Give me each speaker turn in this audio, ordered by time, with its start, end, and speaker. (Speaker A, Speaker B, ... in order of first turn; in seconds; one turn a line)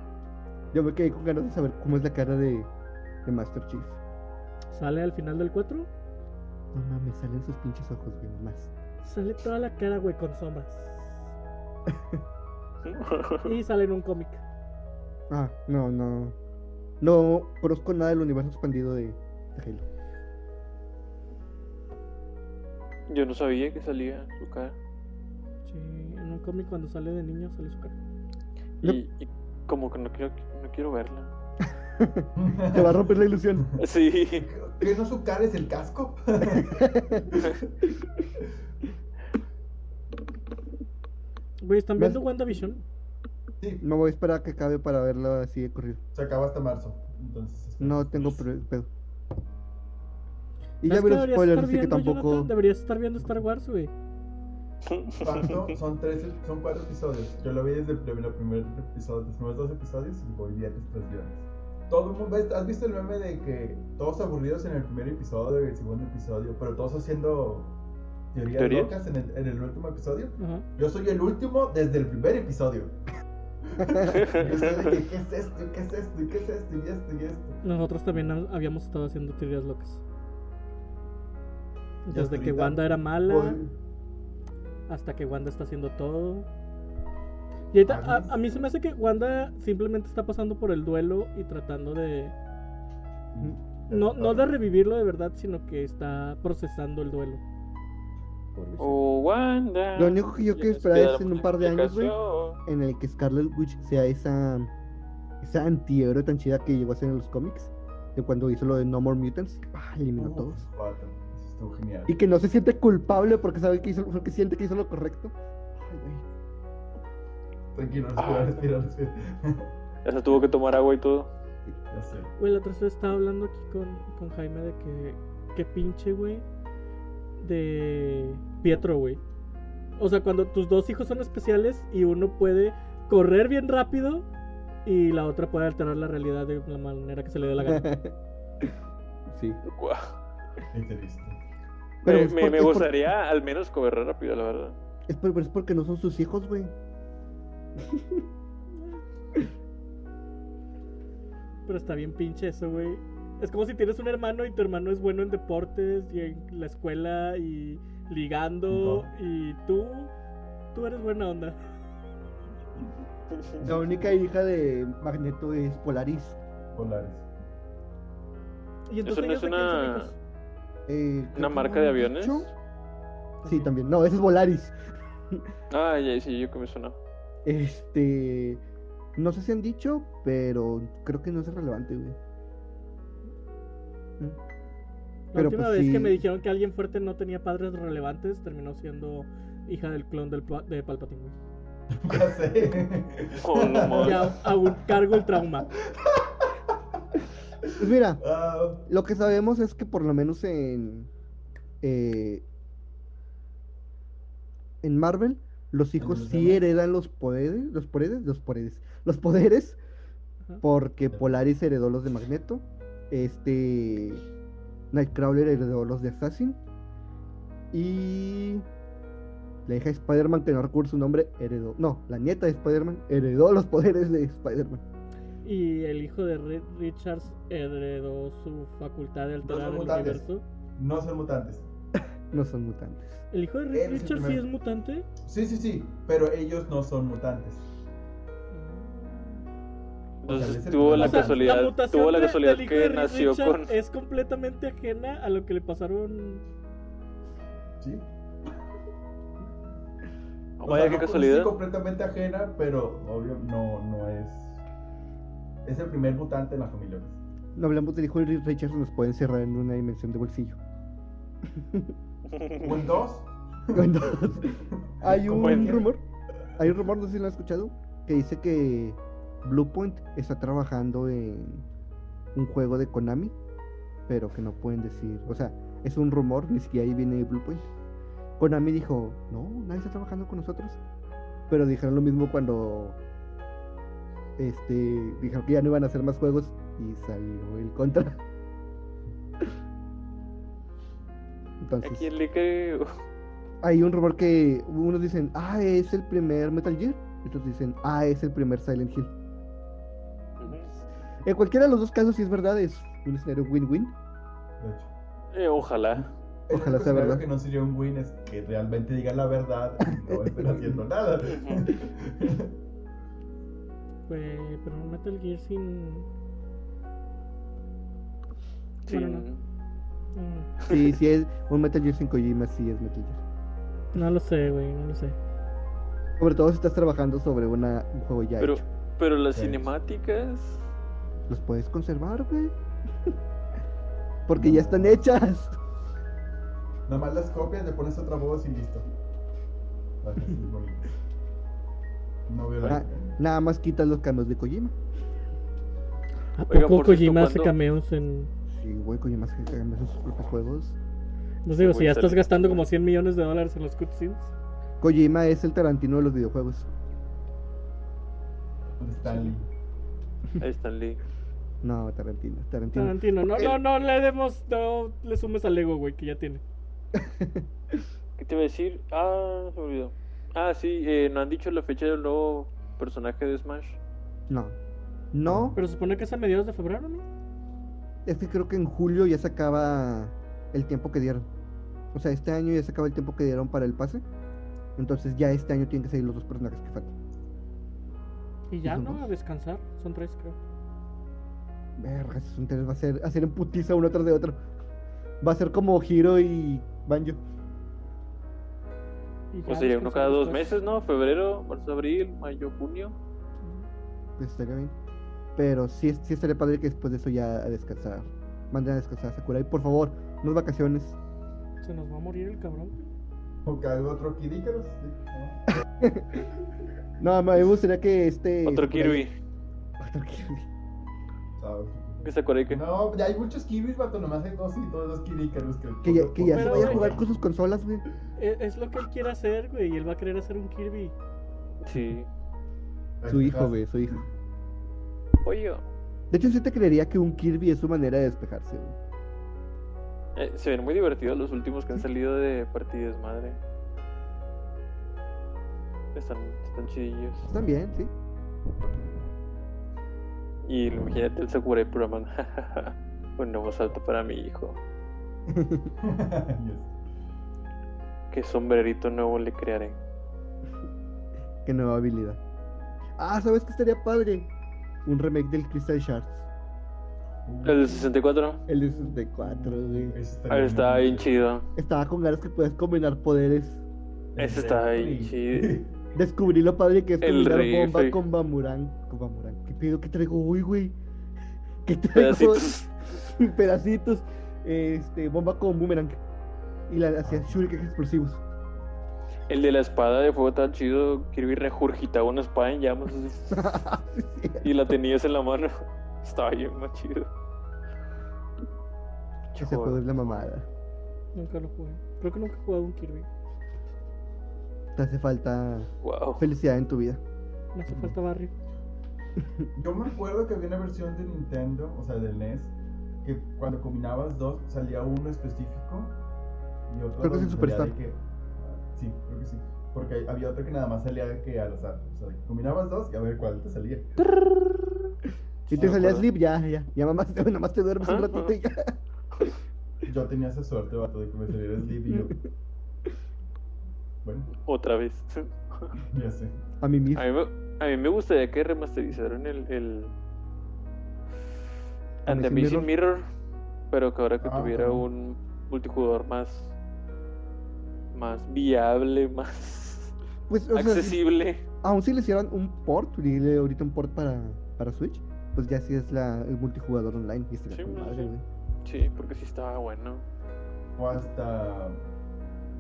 Speaker A: 0.7-2.7
Speaker A: 3.2-4.0
Speaker B: 4.7-5.9
Speaker A: 6.7-8.7
Speaker B: 9.0-11.3
Speaker A: 11.9-12.2
Speaker C: 12.8-13.5
Speaker B: 13.4-14.4
Speaker A: 15.3-16.4
Speaker A: 17.0-19.9
Speaker C: 23.1-24.8
Speaker B: 25.7-27.9
Speaker C: 28.8-31.3
Speaker A: 31.9-33.7
Speaker D: 32.4-33.7
Speaker C: 33.8-34.5
Speaker D: 34.4-37.6
Speaker A: 36.4-37.3
Speaker B: 41.6-42.8
Speaker A: 43.8-46.0
Speaker D: 46.1-48.5
Speaker A: 47.8-48.9
Speaker A: 50.8-52.5
Speaker B: 50.9-53.9
Speaker C: 54.9-55.6
Speaker D: 55.2-67.7
Speaker D: 68.3-73.0
Speaker C: 68.6-68.9
Speaker B: 70.4-70.7
Speaker D: 73.7-77.6
Speaker C: 74.1-74.9
Speaker B: 77.6-80.0
Speaker B: 82.0-83.6
Speaker D: 82.1-83.7
Speaker B: 84.9-86.5
Speaker B: 87.7-92.3
Speaker D: 87.8-88.7
Speaker D: 93.3-94.6
Speaker B: 93.9-97.4
Speaker A: 98.6-99.0
Speaker C: 98.8-102.6
Speaker A: 100.0-102.1
Speaker A: 102.7-104.7
Speaker A: 105.4-110.7
Speaker D: 110.2-112.2
Speaker A: 112.1-116.2
Speaker D: 117.7-119.7
Speaker C: 118.2-118.6
Speaker C: 120.0-121.3
Speaker D: 121.9-122.3
Speaker B: 122.4-126.5
Speaker B: 127.4-129.2
Speaker B: 130.0-134.3
Speaker B: 134.8-137.9
Speaker A: 137.6-138.7
Speaker A: 139.3-139.6
Speaker C: 139.7-140.2
Speaker D: 140.7-141.4
Speaker A: 142.0-143.1
Speaker C: 142.1-144.8
Speaker A: 145.1-146.7
Speaker A: 147.8-148.2
Speaker B: 151.7-160.1
Speaker D: 158.7-159.1
Speaker B: 160.7-161.6
Speaker A: 163.6-166.4
Speaker D: 166.7-167.3
Speaker B: 168.9-170.2
Speaker C: 169.1-170.1
Speaker A: 170.9-172.5
Speaker C: 171.3-172.5
Speaker B: 173.4-173.7
Speaker A: 173.4-174.8
Speaker C: 175.7-177.0
Speaker A: 177.4-178.6
Speaker A: 179.2-182.2
Speaker B: 185.3-191.3
Speaker A: 185.3-186.2
Speaker D: 191.9-194.4
Speaker C: 193.4-194.3
Speaker B: 194.0-195.7
Speaker D: 195.8-196.8
Speaker D: 197.6-198.8
Speaker A: 197.8-198.2
Speaker A: 198.8-201.1
Speaker A: 201.8-202.4
Speaker A: 204.8-209.8
Speaker D: 206.0-206.6
Speaker A: 210.6-214.2
Speaker A: 214.9-216.6
Speaker A: 217.7-218.7
Speaker A: 219.7-224.8
Speaker B: 225.4-230.4
Speaker D: 229.4-230.2
Speaker D: 230.8-231.7
Speaker A: 232.3-233.2
Speaker B: 233.3-235.1
Speaker D: 233.7-234.4
Speaker D: 235.2-237.6
Speaker B: 238.5-239.4
Speaker C: 240.2-243.7
Speaker D: 240.3-241.7
Speaker B: 240.9-246.4
Speaker D: 247.8-248.1
Speaker C: 250.6-251.6
Speaker D: 250.6-254.6
Speaker D: 255.7-257.2
Speaker A: 257.6-260.6
Speaker A: 261.5-261.9
Speaker C: 262.3-262.8
Speaker D: 262.6-264.1
Speaker A: 263.7-266.0
Speaker D: 264.7-265.9
Speaker C: 265.3-265.9
Speaker A: 266.6-271.7
Speaker A: 272.4-273.4
Speaker A: 274.1-277.7
Speaker A: 278.4-280.8
Speaker A: 281.5-283.0
Speaker A: 284.4-288.2
Speaker A: 291.6-292.1
Speaker C: 291.8-292.9
Speaker A: 293.6-299.1
Speaker C: 300.4-300.7
Speaker A: 301.2-303.9
Speaker D: 304.6-304.9
Speaker C: 305.3-306.1
Speaker D: 305.9-312.5
Speaker A: 306.5-307.3
Speaker A: 310.0-310.8
Speaker C: 311.3-311.6
Speaker B: 314.1-316.1
Speaker C: 318.9-319.4
Speaker B: 318.9-319.3
Speaker B: 320.1-320.5
Speaker A: 320.7-323.2
Speaker B: 323.9-325.2
Speaker A: 326.2-328.6
Speaker C: 328.4-330.7
Speaker D: 329.3-329.7
Speaker A: 331.3-332.6
Speaker A: 334.3-335.6
Speaker D: 334.4-335.0
Speaker D: 336.9-338.9
Speaker D: 340.0-340.9
Speaker D: 342.3-343.1
Speaker A: 342.6-344.8
Speaker B: 346.4-348.3
Speaker C: 346.5-347.5
Speaker A: 348.5-350.8
Speaker B: 351.4-354.3
Speaker C: 351.6-352.7
Speaker A: 354.8-356.7
Speaker D: 358.8-359.5
Speaker C: 360.4-361.0
Speaker A: 361.6-363.6
Speaker B: 362.7-366.4
Speaker A: 366.9-367.5
Speaker C: 368.2-373.8
Speaker A: 374.3-374.6
Speaker A: 375.1-375.6
Speaker D: 375.2-375.6
Speaker B: 375.6-377.0
Speaker A: 378.1-381.3
Speaker A: 381.9-384.0
Speaker A: 384.8-386.9
Speaker B: 388.5-390.4
Speaker A: 388.6-389.0
Speaker A: 391.8-394.4
Speaker A: 395.2-397.2
Speaker B: 399.3-400.5
Speaker C: 399.5-402.9
Speaker A: 404.2-404.8
Speaker A: 405.4-411.0
Speaker B: 411.6-412.9
Speaker D: 413.4-415.6
Speaker A: 415.8-416.3
Speaker A: 417.0-419.1
Speaker C: 418.4-419.1
Speaker A: 419.8-420.5
Speaker D: 421.4-427.1
Speaker C: 422.0-422.6
Speaker A: 425.8-427.9
Speaker B: 426.2-426.9
Speaker B: 428.2-430.9
Speaker C: 431.6-432.1
Speaker D: 433.0-433.6
Speaker A: 433.1-434.0
Speaker C: 435.2-435.6
Speaker A: 436.1-438.8
Speaker C: 440.2-443.4
Speaker C: 445.9-447.3
Speaker A: 447.3-447.9
Speaker C: 450.4-454.6
Speaker A: 455.3-455.7
Speaker D: 455.8-456.7
Speaker C: 458.1-459.8
Speaker A: 461.4-462.2
Speaker A: 463.0-464.3
Speaker A: 464.9-466.2
Speaker D: 467.3-467.9
Speaker C: 467.4-468.4
Speaker A: 468.5-470.0
Speaker D: 468.6-471.3
Speaker C: 470.3-471.5
Speaker A: 471.6-473.6
Speaker D: 474.1-475.7
Speaker C: 474.2-475.6
Speaker A: 475.9-480.8
Speaker C: 477.0-478.0
Speaker A: 481.6-486.0
Speaker C: 481.9-482.7
Speaker A: 486.7-488.2
Speaker D: 487.0-487.5
Speaker C: 489.3-493.5
Speaker A: 493.3-494.4
Speaker C: 494.4-497.1
Speaker C: 499.3-500.3
Speaker A: 499.4-500.5
Speaker B: 501.1-503.1
Speaker A: 504.8-507.0
Speaker C: 505.8-506.3
Speaker B: 507.5-508.3
Speaker D: 507.7-507.9
Speaker D: 509.6-512.5
Speaker D: 513.0-516.0
Speaker D: 516.7-524.0
Speaker A: 517.0-517.7
Speaker C: 524.0-524.9
Speaker A: 525.5-528.8
Speaker D: 525.5-525.9
Speaker C: 525.5-526.1
Speaker C: 527.8-528.4
Speaker D: 529.9-532.2
Speaker A: 531.9-532.2
Speaker D: 534.0-534.3
Speaker C: 534.4-535.7
Speaker D: 535.9-536.3
Speaker A: 536.6-537.1
Speaker C: 537.0-539.9
Speaker C: 542.0-543.0
Speaker A: 542.1-542.7
Speaker C: 543.7-546.5
Speaker D: 544.2-544.9
Speaker C: 547.9-549.9
Speaker A: 550.3-551.0
Speaker C: 550.5-551.4
Speaker A: 551.6-558.2
Speaker C: 557.5-558.1
Speaker C: 558.6-560.0
Speaker D: 560.8-561.8